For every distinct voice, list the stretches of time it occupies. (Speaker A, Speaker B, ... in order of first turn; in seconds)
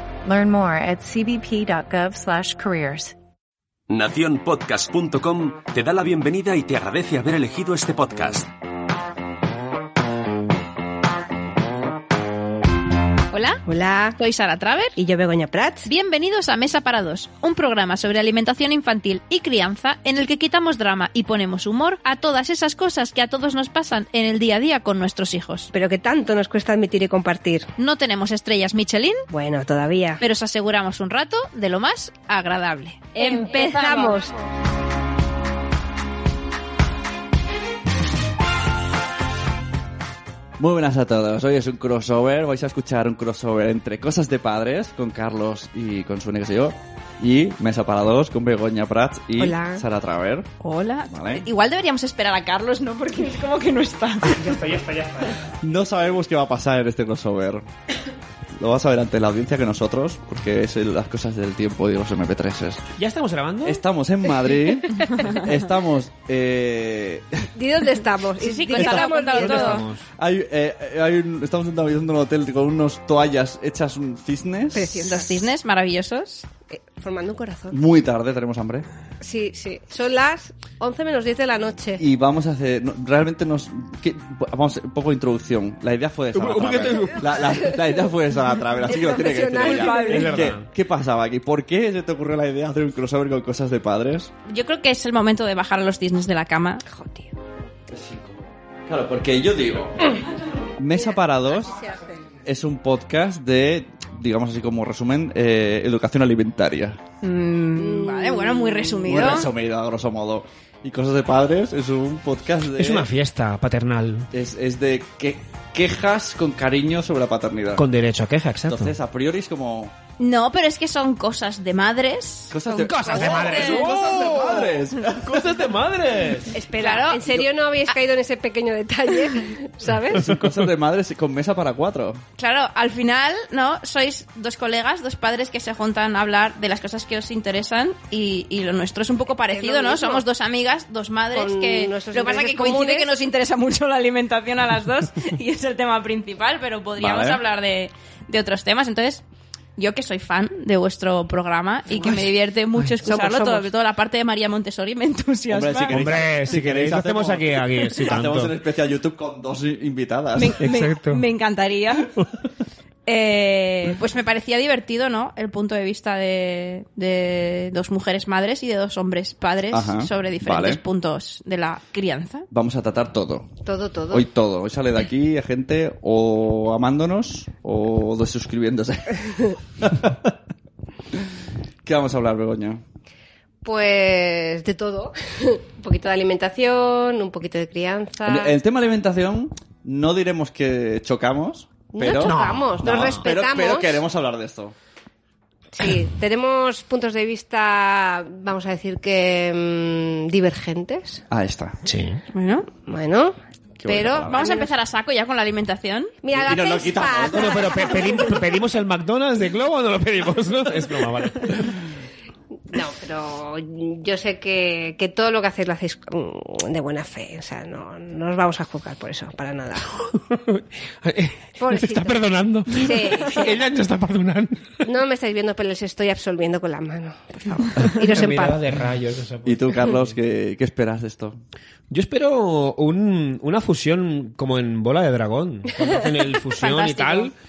Speaker A: 0.2-3.1
Speaker B: 3.9-8.5
Speaker C: 13.3-13.6, 14.2-14.9, 15.9-25.7, 27.8-29.2, 30.2-34.3, 50.6-54.6, 65.0-65.3, 68.4-69.9, 75.0-76.5, 89.6-90.5, 94.5-96.8, 107.2-109.5, 120.2-123.9, 126.8-127.3, 132.4-149.2, 149.8-156.1, 160.4-162.1, 163.1-172.5, 202.3-202.7, 204.2-206.2, 236.6-237.3
Speaker D: 13.7-14.2, 15.0-15.9, 25.7-27.7, 29.3-30.2, 33.2-34.4, 49.4-49.9, 67.5-69.8, 74.7-75.5, 76.7-77.8, 79.2-82.0, 88.8-90.4, 96.9-97.3, 101.0-102.2, 107.8-109.3, 123.3-123.8, 126.5-130.4, 139.5-140.2, 141.3-143.1, 151.9-152.3, 153.0-153.7, 173.7-174.3, 183.6-188.6, 191.9-194.0, 195.7-201.2, 202.8-204.7, 206.2-208.3, 212.7-219.9, 221.6-223.6, 224.8-228.6
Speaker E: 40.6-50.5, 51.1-51.5, 55.6-57.6, 58.6-62.8, 63.6-67.5, 68.7-75.0, 77.7-78.9, 82.0-94.3, 97.9-100.1, 100.8-101.8, 102.5-107.0, 109.0-113.1, 114.3-117.8, 118.7-119.9, 122.5-125.5, 130.2-132.2, 147.0-147.4, 155.5-160.6, 169.7-170.8, 172.5-173.5, 174.1-180.3, 181.8-182.8, 188.2-194.7, 201.3-201.8, 203.8-204.5, 206.3-208.1, 229.4-231.4
Speaker F: 54.2-55.4, 63.0-63.8, 69.3-70.1, 86.3-87.6, 89.6-90.7, 112.8-114.3, 117.8-118.9, 122.8-126.5, 155.9-158.5, 160.6-161.2, 192.2-193.2, 201.9-202.2, 207.3-211.8, 220.0-224.8, 227.8-230.1, 231.9-237.3